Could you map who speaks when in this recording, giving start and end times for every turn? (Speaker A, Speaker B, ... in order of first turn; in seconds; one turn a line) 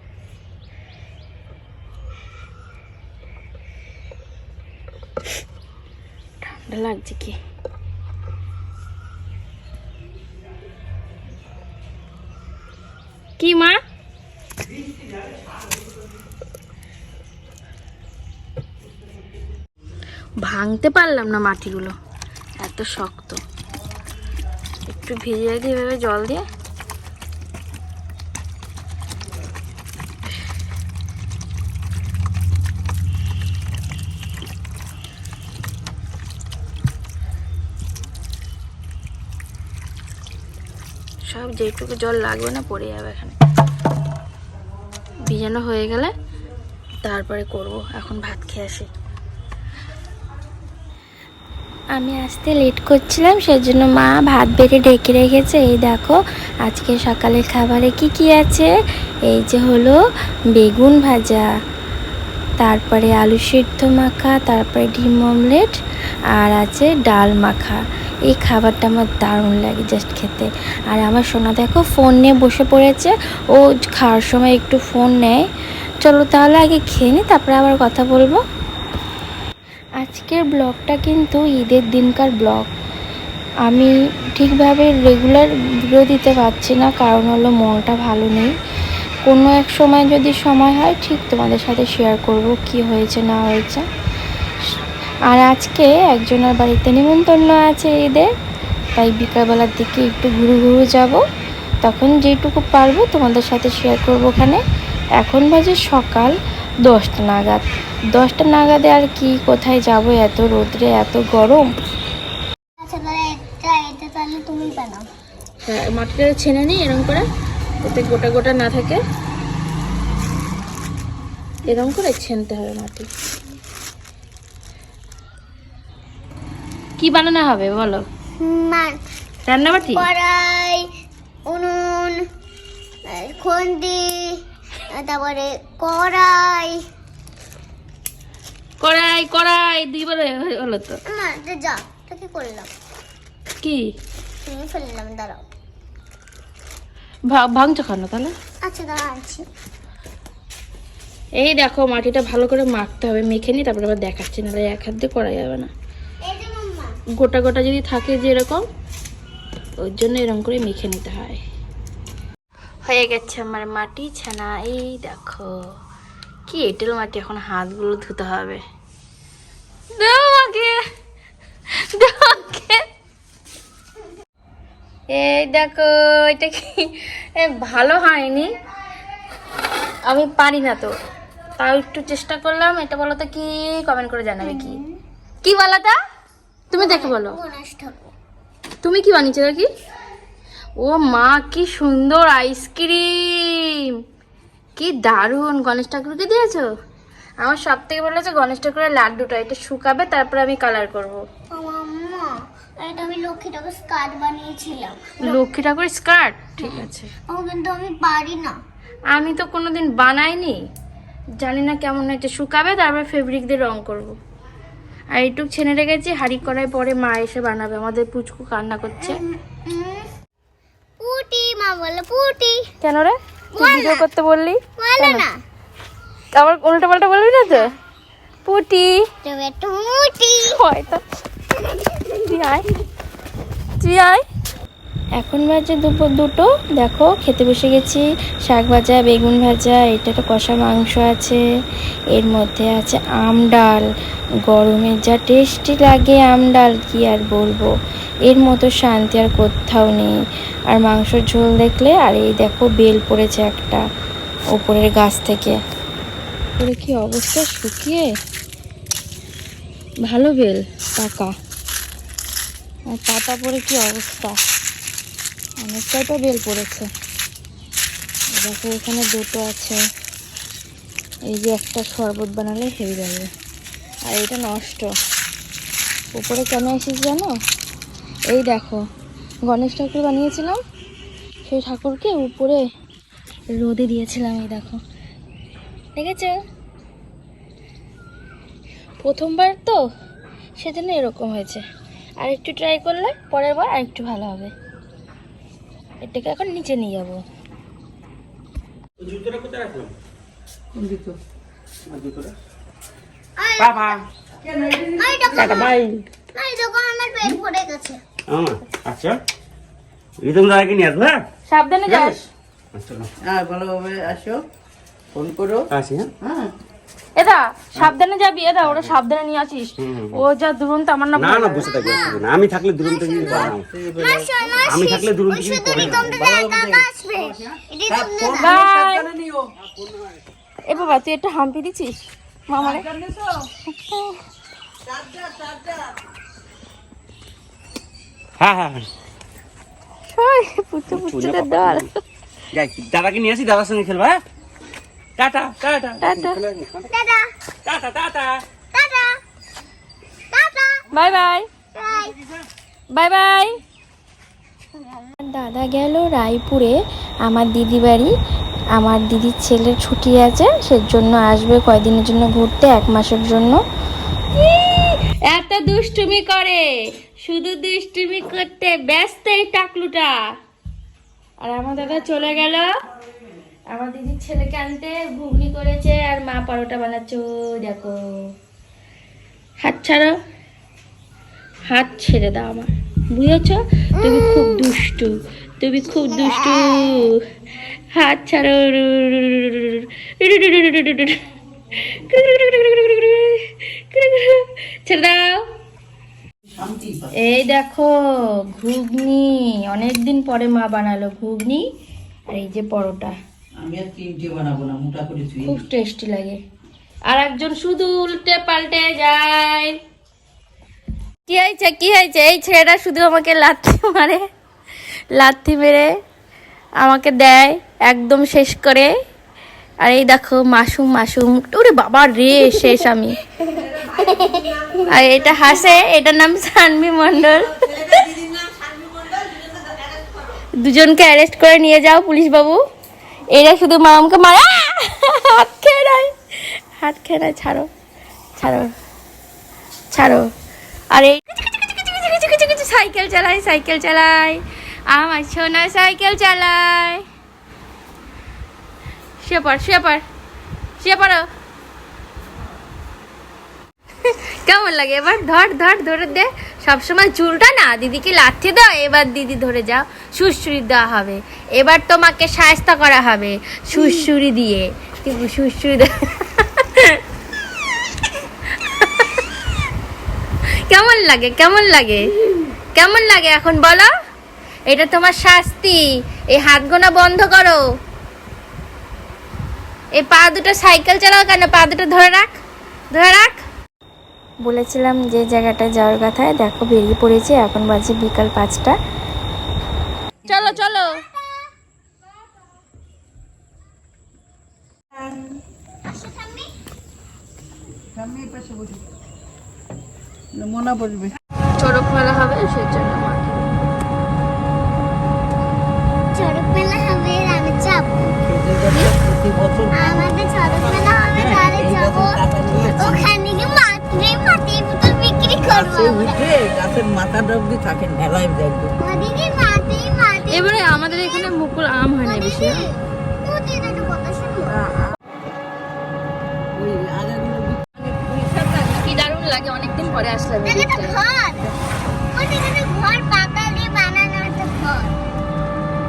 Speaker A: 6.4-7.3
Speaker A: 13.4-13.8
Speaker A: 20.4-21.9
Speaker A: 22.6-23.4
Speaker A: 24.9-26.4
Speaker A: 41.3-43.4
Speaker A: 45.3-46.1
Speaker A: 47.0-48.9
Speaker A: 52.0-58.7
Speaker A: 59.3-60.0
Speaker A: 60.5-61.5
Speaker A: 62.6-65.8
Speaker A: 66.4-75.4
Speaker A: 76.0-78.4
Speaker A: 80.0-82.7
Speaker A: 83.7-88.5
Speaker A: 89.2-93.8
Speaker A: 95.3-98.3
Speaker A: 99.0-101.2
Speaker A: 101.8-104.6
Speaker A: 105.2-111.7
Speaker B: 112.8-115.1
Speaker A: 115.6-117.2
Speaker A: 117.8-119.0
Speaker A: 121.7-123.1
Speaker A: 127.0-128.1
Speaker B: 128.4-129.0
Speaker A: 129.5-130.1
Speaker B: 129.9-130.9
Speaker B: 131.5-132.2
Speaker B: 133.1-136.8
Speaker A: 138.8-141.0
Speaker B: 141.1-142.7
Speaker B: 144.4-145.4
Speaker A: 147.3-148.3
Speaker B: 148.6-149.4
Speaker A: 151.4-155.7
Speaker B: 156.2-156.9
Speaker A: 157.2-158.6
Speaker A: 159.8-161.4
Speaker A: 162.8-165.6
Speaker A: 166.5-168.6
Speaker A: 169.9-170.8
Speaker A: 171.8-172.8
Speaker A: 175.1-178.5
Speaker A: 180.1-180.9
Speaker A: 181.6-184.8
Speaker A: 185.4-185.9
Speaker A: 186.7-187.4
Speaker B: 186.7-188.1
Speaker A: 188.8-189.7
Speaker A: 190.8-193.9
Speaker A: 194.8-196.7
Speaker A: 197.4-201.2
Speaker B: 201.5-205.4
Speaker A: 205.2-207.1
Speaker B: 207.3-208.6
Speaker A: 209.1-210.6
Speaker A: 211.4-214.2
Speaker A: 215.1-219.2
Speaker B: 219.1-220.1
Speaker B: 221.0-222.7
Speaker A: 222.8-225.2
Speaker B: 223.5-224.1
Speaker B: 224.8-225.4
Speaker A: 226.3-227.7
Speaker A: 228.4-229.1
Speaker B: 229.2-230.6
Speaker A: 230.4-231.0
Speaker A: 231.6-232.7
Speaker A: 233.8-234.2
Speaker A: 235.2-241.4
Speaker A: 242.1-243.9
Speaker A: 244.5-247.7
Speaker A: 248.3-250.1
Speaker A: 250.7-253.8
Speaker A: 254.5-255.6
Speaker A: 256.6-258.1
Speaker A: 260.0-261.3
Speaker A: 262.9-264.4
Speaker A: 265.6-266.9
Speaker A: 268.3-269.8
Speaker A: 271.3-273.3
Speaker A: 274.0-274.9
Speaker A: 276.1-277.4
Speaker A: 278.3-278.8
Speaker A: 279.4-280.6
Speaker A: 281.4-282.6
Speaker A: 283.5-284.8
Speaker A: 285.9-286.4
Speaker A: 289.0-289.8
Speaker A: 290.6-291.6
Speaker A: 292.2-294.5
Speaker A: 296.0-297.2
Speaker C: 299.0-299.9
Speaker D: 300.8-301.1
Speaker C: 301.9-302.3
Speaker B: 303.4-304.0
Speaker D: 304.4-305.5
Speaker B: 304.9-305.8
Speaker A: 305.3-305.9
Speaker C: 305.6-305.8
Speaker B: 306.3-308.0
Speaker C: 308.3-309.2
Speaker C: 310.2-311.2
Speaker A: 311.5-312.3
Speaker C: 311.9-312.2
Speaker C: 312.7-313.1
Speaker D: 313.2-314.4
Speaker D: 315.1-315.7
Speaker C: 315.7-316.1
Speaker D: 316.2-316.5
Speaker A: 317.1-321.7
Speaker C: 319.8-320.2
Speaker C: 321.1-323.6
Speaker D: 321.8-322.2
Speaker B: 322.8-328.6
Speaker D: 323.1-325.0
Speaker C: 324.6-326.1
Speaker D: 325.7-326.9
Speaker D: 327.9-329.5
Speaker A: 328.4-329.1
Speaker A: 330.6-332.0
Speaker A: 332.5-332.9
Speaker D: 332.7-333.2
Speaker A: 333.6-334.2
Speaker D: 335.0-335.7
Speaker C: 338.4-338.9
Speaker A: 340.1-342.0
Speaker C: 340.9-341.9
Speaker C: 342.5-344.2
Speaker C: 345.2-346.9
Speaker A: 346.0-346.4
Speaker B: 346.9-347.3
Speaker C: 347.6-348.4
Speaker B: 348.7-349.1
Speaker B: 350.3-350.8
Speaker A: 350.9-351.5
Speaker B: 351.7-352.1
Speaker A: 352.9-353.6
Speaker A: 355.1-358.1
Speaker A: 358.7-363.6
Speaker A: 364.3-366.7
Speaker A: 367.2-370.2
Speaker A: 371.4-372.8
Speaker A: 373.7-378.3
Speaker A: 379.6-380.2
Speaker A: 381.7-387.2
Speaker A: 387.9-391.2
Speaker A: 391.7-395.4
Speaker D: 396.6-397.1
Speaker A: 397.2-397.9
Speaker A: 398.5-401.6
Speaker A: 402.3-403.1
Speaker D: 403.6-405.6
Speaker A: 405.4-406.4
Speaker A: 407.1-409.8
Speaker A: 411.2-414.2
Speaker A: 415.1-415.9
Speaker A: 416.8-418.9
Speaker A: 419.8-423.2
Speaker B: 424.1-424.4
Speaker A: 424.7-428.2
Speaker A: 430.6-432.6
Speaker A: 433.3-437.7
Speaker A: 438.4-438.7
Speaker A: 439.9-440.3
Speaker A: 440.9-447.0
Speaker A: 449.2-450.0
Speaker A: 450.8-451.2
Speaker A: 454.0-467.0
Speaker A: 468.5-469.2
Speaker A: 470.5-472.1
Speaker A: 472.7-473.9
Speaker A: 474.7-477.6
Speaker A: 479.9-482.4
Speaker A: 482.9-483.4
Speaker A: 484.4-488.8
Speaker A: 490.2-491.1
Speaker B: 495.8-496.5
Speaker D: 498.0-498.7
Speaker D: 500.3-501.1
Speaker A: 501.5-503.5
Speaker B: 506.1-508.1
Speaker D: 508.0-510.1
Speaker B: 509.7-512.2
Speaker D: 511.1-513.1
Speaker B: 512.8-516.2
Speaker D: 515.4-518.8
Speaker B: 518.8-521.3
Speaker A: 520.3-522.7
Speaker B: 522.0-524.6
Speaker D: 526.5-527.6
Speaker A: 527.8-530.9
Speaker B: 530.4-531.5
Speaker B: 532.1-535.0